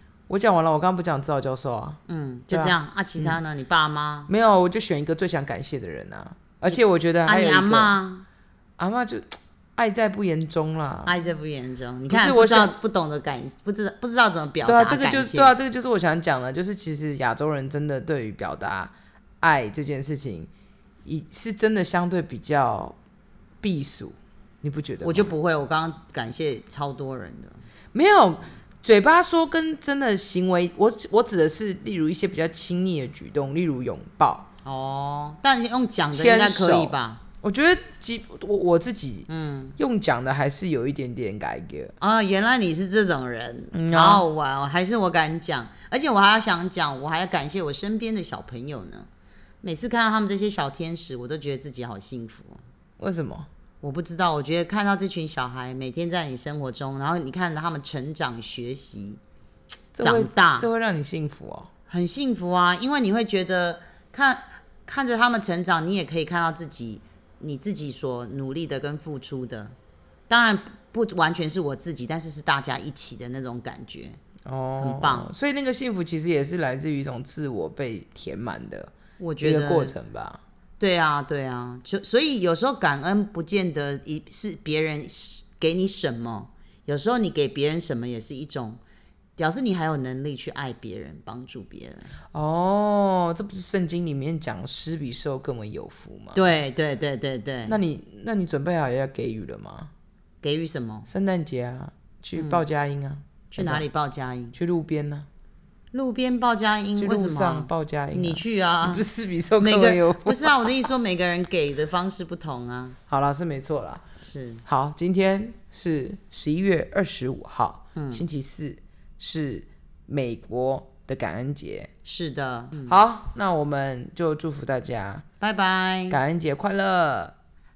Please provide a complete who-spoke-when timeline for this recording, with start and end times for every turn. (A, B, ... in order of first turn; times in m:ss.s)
0:00.3-0:02.0 A
0:02.1-0:04.3 B
0:02.5-0:03.4 A
0:04.3-0:07.9 A
0:06.7-0:08.2 B
0:08.8-0:11.1 A
0:11.0-0:15.5 B
0:12.1-0:12.7 A
0:14.6-0:20.5 A
0:21.0-0:23.0 A
0:23.6-0:25.3 A
0:25.0-0:27.6 B
0:27.9-0:34.4 A
0:34.6-0:37.2 B
0:36.1-0:39.3 A
0:39.3-0:39.8 B
0:39.8-0:41.9 A
0:42.0-0:49.1 B
0:43.7-0:44.2 A
0:49.6-0:52.6 B
0:53.0-0:53.5 A
0:53.8-0:59.2 B
0:59.9-1:01.7 A
1:00.0-1:00.7 B
1:01.9-1:09.7 B
1:10.3-1:14.2 B
1:14.4-1:20.4 A
1:14.8-1:15.3 B
1:19.2-1:19.9 B
1:20.8-1:28.8 B
1:29.4-1:32.1 B
1:32.3-1:36.5 A
1:36.3-1:37.8 B
1:37.6-1:39.9 A
1:40.4-1:41.1 B
1:41.1-1:43.8 A
1:42.4-1:42.6 B
1:43.5-1:44.5 B
1:44.5-1:45.3 A
1:45.9-1:49.0 B
1:47.0-1:50.9 A
1:49.6-1:53.0 B
1:53.1-1:54.0 A
1:54.2-1:54.6 B
1:54.6-2:01.9 A
1:57.9-1:58.2 B
2:02.0-2:03.0 B
2:02.8-2:05.2 A
2:05.4-2:06.2 B
2:06.1-2:07.3 A